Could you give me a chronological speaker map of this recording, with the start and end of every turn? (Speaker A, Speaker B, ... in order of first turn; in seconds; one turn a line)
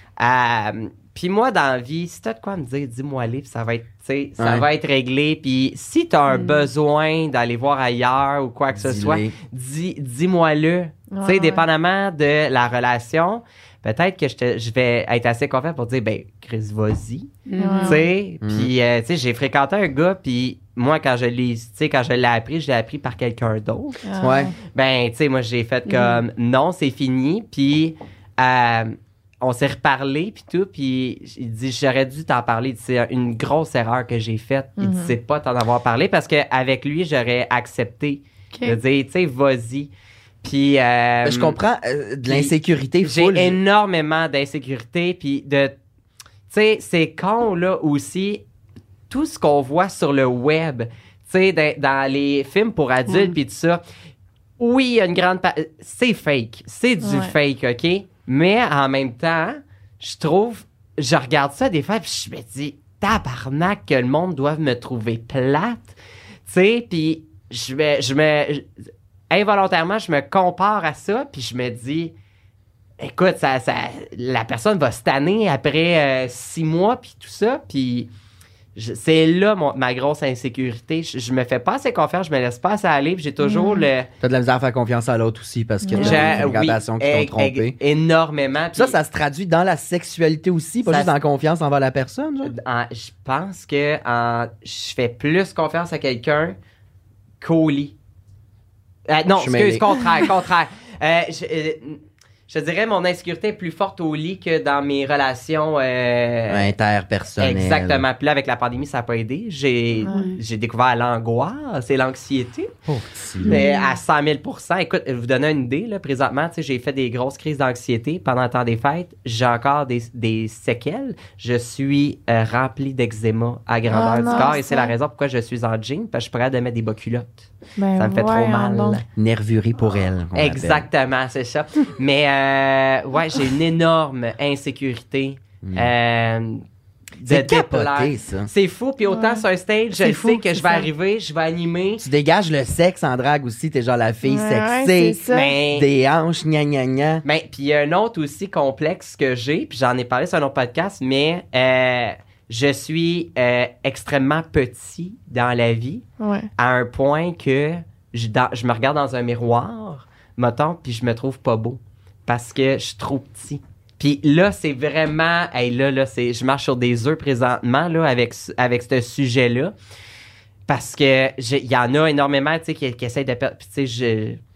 Speaker A: 0.2-17.3
Speaker B: 4.4-4.7
Speaker C: 6.3-6.7
Speaker B: 8.7-9.3
Speaker D: 11.1-11.7
Speaker C: 17.5-18.1
Speaker D: 17.6-18.1
Speaker A: 17.8-24.0
Speaker B: 18.4-18.7
Speaker D: 24.1-24.5
Speaker B: 24.2-24.5
Speaker A: 24.7-39.9
Speaker C: 25.9-26.2
Speaker D: 34.8-35.2
Speaker C: 38.5-38.8
Speaker A: 40.4-41.6
Speaker B: 41.2-43.6
Speaker A: 42.3-45.8
Speaker A: 46.5-48.4
Speaker A: 49.1-53.8
Speaker C: 53.1-53.4
Speaker A: 54.6-68.7
Speaker D: 57.0-57.3
Speaker A: 69.3-72.1
Speaker A: 73.0-78.1
Speaker A: 78.8-84.1
Speaker C: 83.5-83.8
Speaker B: 84.2-87.8
Speaker D: 85.8-86.5
Speaker A: 85.9-89.0
Speaker B: 88.7-92.5
Speaker A: 90.9-91.2
Speaker A: 92.4-96.6
Speaker A: 97.4-98.0
Speaker A: 99.1-106.7
Speaker B: 99.4-100.0
Speaker B: 106.5-108.0
Speaker A: 107.4-112.8
Speaker D: 110.0-110.3
Speaker C: 110.0-110.4
Speaker B: 112.9-113.6
Speaker C: 113.4-113.9
Speaker A: 113.5-129.1
Speaker D: 123.9-124.9
Speaker C: 124.2-124.6
Speaker D: 127.8-129.0
Speaker B: 129.2-130.9
Speaker A: 130.3-136.7
Speaker B: 135.6-135.9
Speaker B: 137.2-138.5
Speaker A: 137.2-142.1
Speaker D: 139.1-139.4
Speaker C: 140.0-140.9
Speaker B: 142.0-147.2
Speaker D: 144.2-145.5
Speaker A: 145.3-145.9
Speaker A: 147.2-156.1
Speaker D: 156.2-156.5
Speaker A: 156.6-169.7
Speaker A: 170.7-174.4